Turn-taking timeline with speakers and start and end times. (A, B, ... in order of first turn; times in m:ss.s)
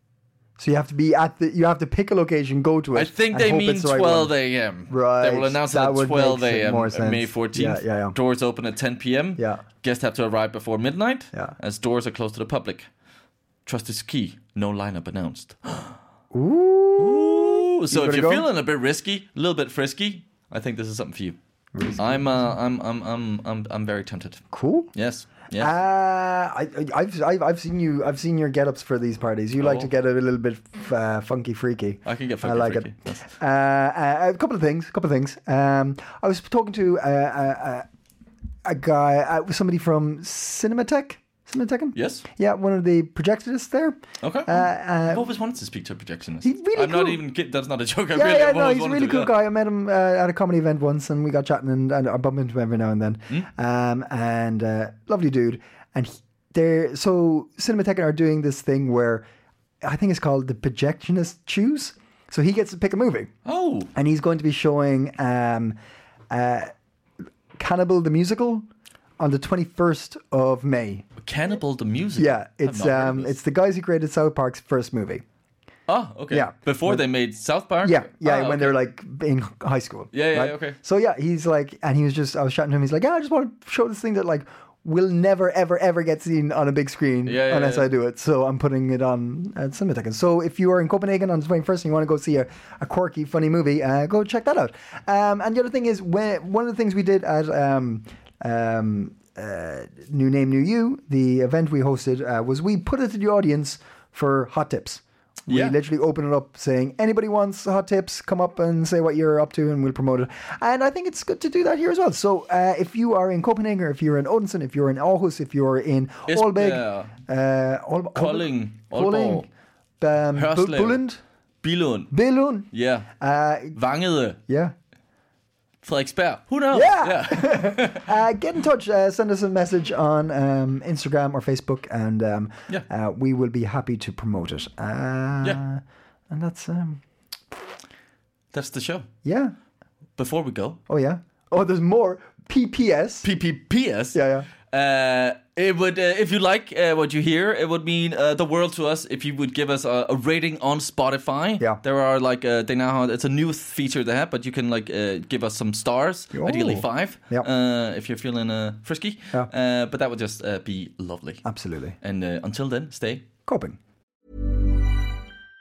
0:00.6-0:04.3 A
0:02.9-0:12.9 B
0:04.9-0:08.2 A
0:09.4-0:09.6 A
0:13.6-0:16.0 B
0:16.3-0:18.4 A
0:17.0-0:21.4 B
0:21.7-0:22.5 A
0:21.9-0:25.7 B
0:24.5-0:24.9 A
0:25.6-0:37.9 A
0:29.6-0:29.9 B
0:32.0-0:33.2 B
0:38.6-0:45.2 A
0:42.0-0:42.2 B
0:44.2-0:49.3 B
0:46.4-0:47.2 A
0:48.1-0:59.2 A
0:59.8-1:03.3 A
1:03.4-1:03.9 B
1:03.9-1:05.8 A
1:06.3-1:06.7 A
1:07.6-1:08.7 A
1:09.2-1:11.1 A
1:11.2-1:13.3 B
1:12.2-1:15.2 A
1:15.9-1:18.8 B
1:16.3-1:17.0 A
1:17.8-1:59.5 A
1:20.1-1:20.8 B
1:27.2-1:27.9 B
1:45.5-1:45.8 B
1:56.3-1:57.1 B
1:58.1-1:59.5 B
2:00.0-2:01.2 A
2:00.3-2:01.0 B
2:01.6-2:02.1 B
2:02.1-2:03.8 A
2:02.7-2:03.1 B
2:03.7-2:04.4 B
2:04.5-2:04.7 A
2:05.8-2:08.1 B
2:06.7-2:17.0 A
2:18.5-2:19.1 B
2:19.2-2:19.5 A
2:20.2-2:20.8 B
2:20.9-2:23.3 A
2:23.2-2:24.2 B
2:24.1-2:24.5 A
2:24.7-2:41.4 B
2:36.3-2:37.5 A
2:41.4-2:42.0 A
2:42.0-2:43.3 B
2:43.4-2:43.8 A